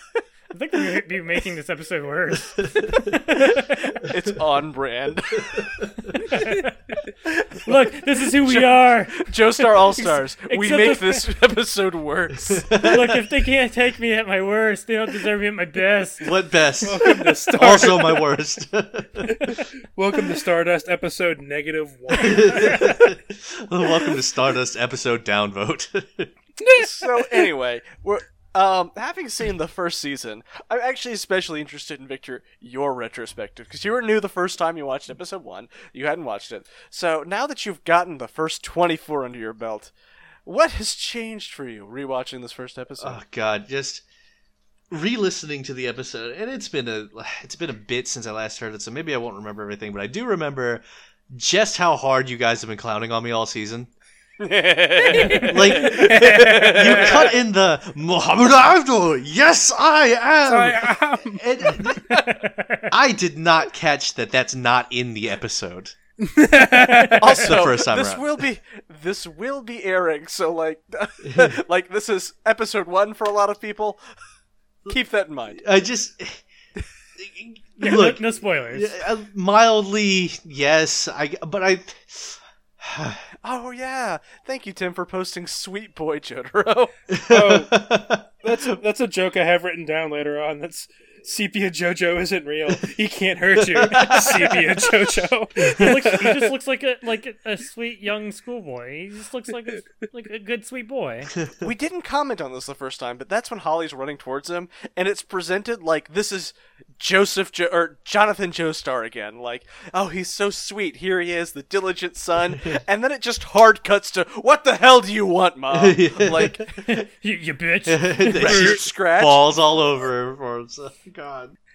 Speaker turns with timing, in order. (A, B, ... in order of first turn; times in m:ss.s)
0:00.5-0:03.8 A
0:03.3-0:05.6 B
0:05.6-0:06.2 C
0:06.2-0:07.0 A
0:07.2-0:07.7 B
0:07.6-0:11.3 A
0:08.3-0:12.7 B
0:12.4-0:13.3 C
0:12.8-0:16.4 A
0:16.2-0:19.5 C
0:16.8-0:18.3 D
0:19.3-0:23.1 D
0:22.2-0:26.3 C
0:26.6-0:27.5 D
0:26.7-0:39.9 B
0:40.5-0:43.2 B
0:43.0-0:44.0 C
0:44.9-0:53.9 C
0:54.4-0:57.3 B
0:55.0-0:57.2 D
0:55.4-1:02.2 C
1:00.5-1:02.3 D
1:01.9-1:02.9 A
1:02.9-1:06.0 C
1:06.2-1:07.2 D
1:06.8-1:07.4 A
1:07.2-1:14.0 B
1:07.3-1:08.2 C
1:11.2-1:11.5 C
1:14.9-1:15.6 B
1:15.5-1:16.4 C
1:17.2-1:23.2 C
1:17.8-1:18.9 A
1:23.4-1:26.9 B
1:27.1-1:28.7 C
1:27.3-1:27.8 D
1:28.4-1:36.6 D
1:33.6-1:34.9 C
1:35.6-1:36.0 C
1:35.7-1:41.3 A
1:41.6-1:56.7 B
1:55.7-1:56.9 C
1:56.8-1:58.8 A
1:57.8-2:01.6 C
1:58.4-1:59.4 B